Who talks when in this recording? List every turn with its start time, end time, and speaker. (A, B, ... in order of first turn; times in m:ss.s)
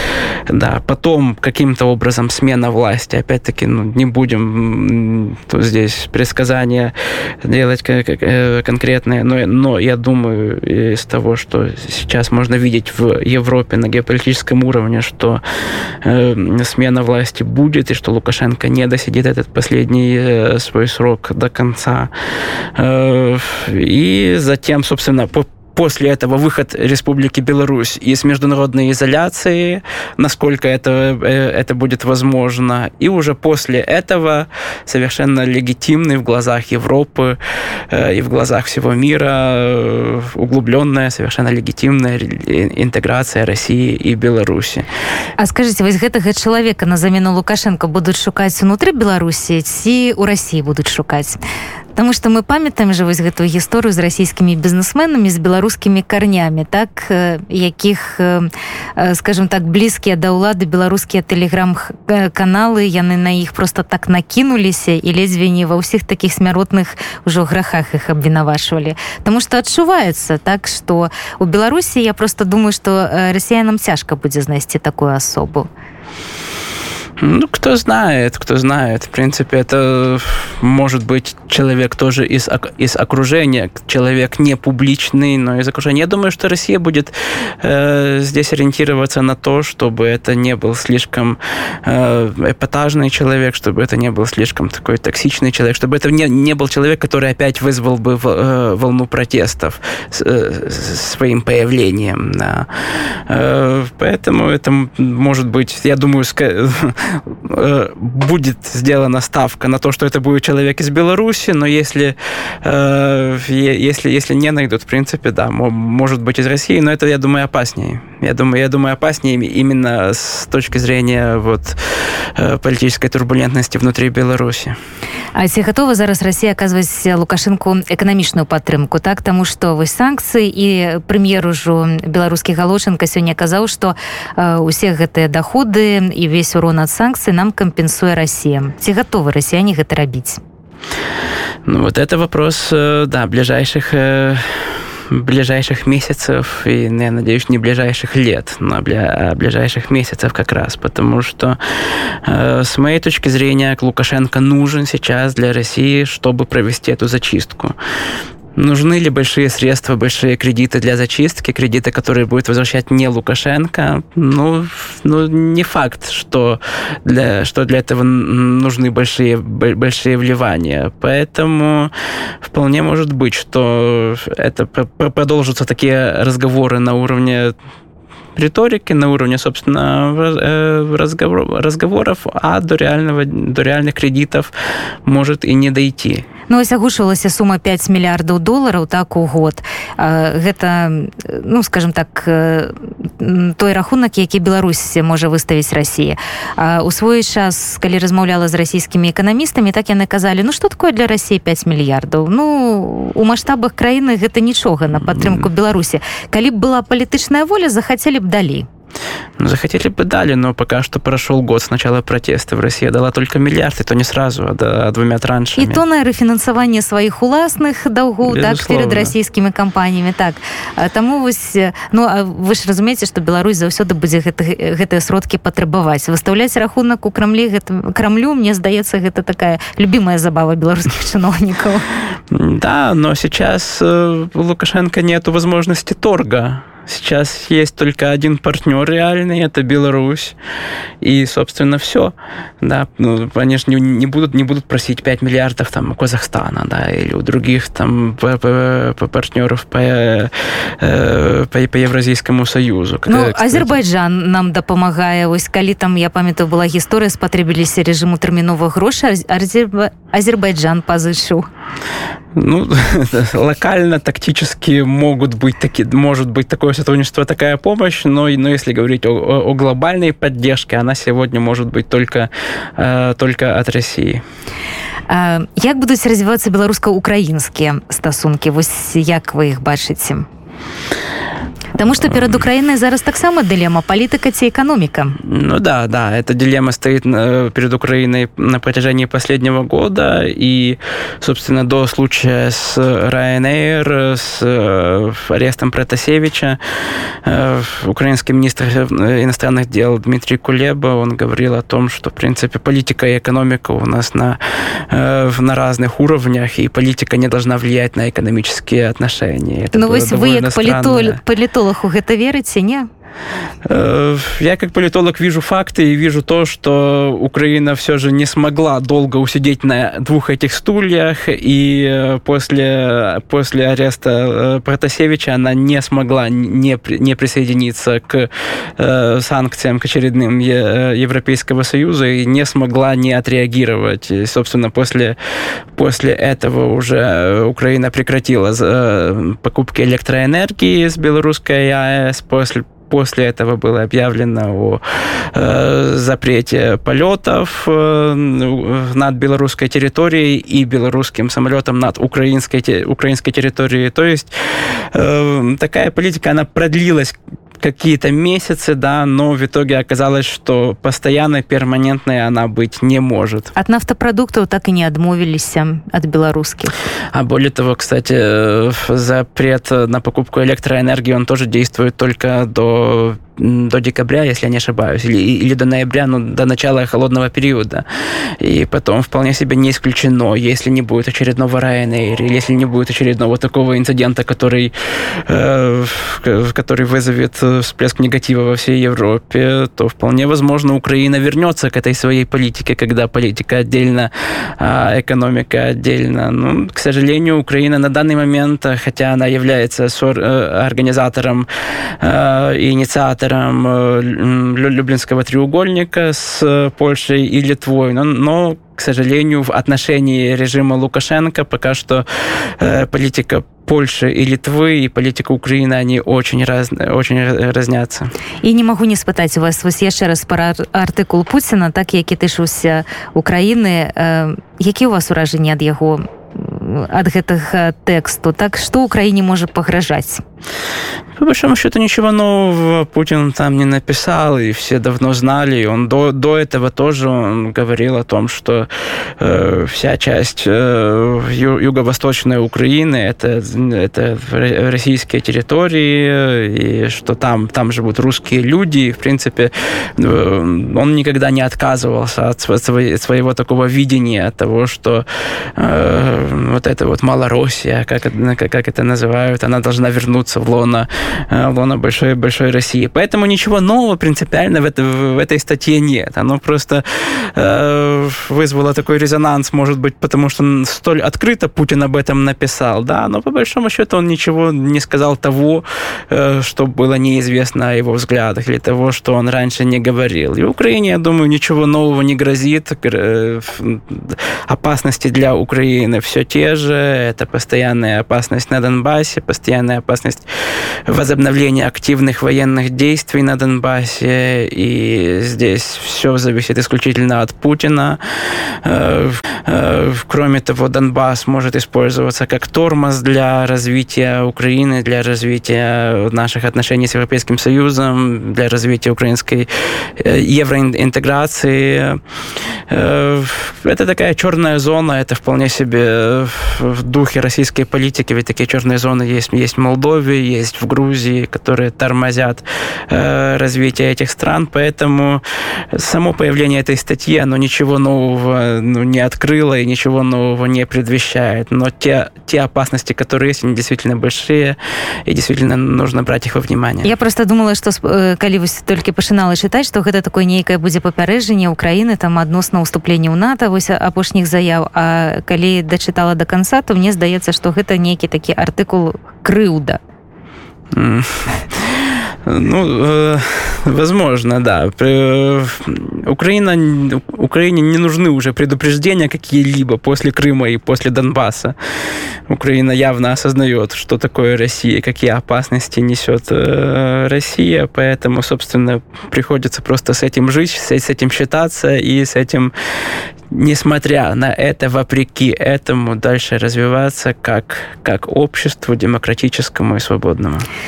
0:00.5-0:15.4 A
0:16.0-0:22.1 A
0:22.7-0:37.4 A
0:37.9-0:44.9 A
0:45.4-0:51.4 B
0:52.0-1:15.7 B
1:17.2-2:01.8 A
2:02.3-2:04.8 A
2:05.3-2:20.4 B
2:21.6-2:37.7 A
2:38.6-2:51.9 A
2:52.4-2:57.5 A
2:58.3-3:04.5 A
3:05.0-3:06.2 A
3:06.5-3:28.7 B
3:25.0-3:25.5 A
3:29.4-3:35.8 A
3:35.6-3:51.8 B
3:38.2-3:39.1 A
3:52.3-4:00.4 A
4:01.0-4:13.8 A
4:13.1-4:21.5 B
4:22.3-4:34.2 A
4:35.1-4:40.3 B
4:41.8-4:45.2 B
4:45.2-4:56.6 A
4:57.2-5:11.2 A
5:09.7-5:12.9 B
5:13.6-5:35.2 A
5:35.7-5:44.8 A
5:45.3-6:03.5 A
6:03.6-6:06.7 B
6:07.1-6:17.8 A
6:18.4-6:41.5 A
6:42.0-6:58.1 A
6:58.4-7:10.2 B
7:11.2-7:18.7 A
7:19.2-7:35.0 A
7:35.6-8:10.2 A
8:10.9-8:32.0 A
8:32.7-8:56.9 A
8:56.8-9:09.8 B
9:10.7-9:21.6 A
9:22.3-9:32.5 A
9:33.3-9:40.5 A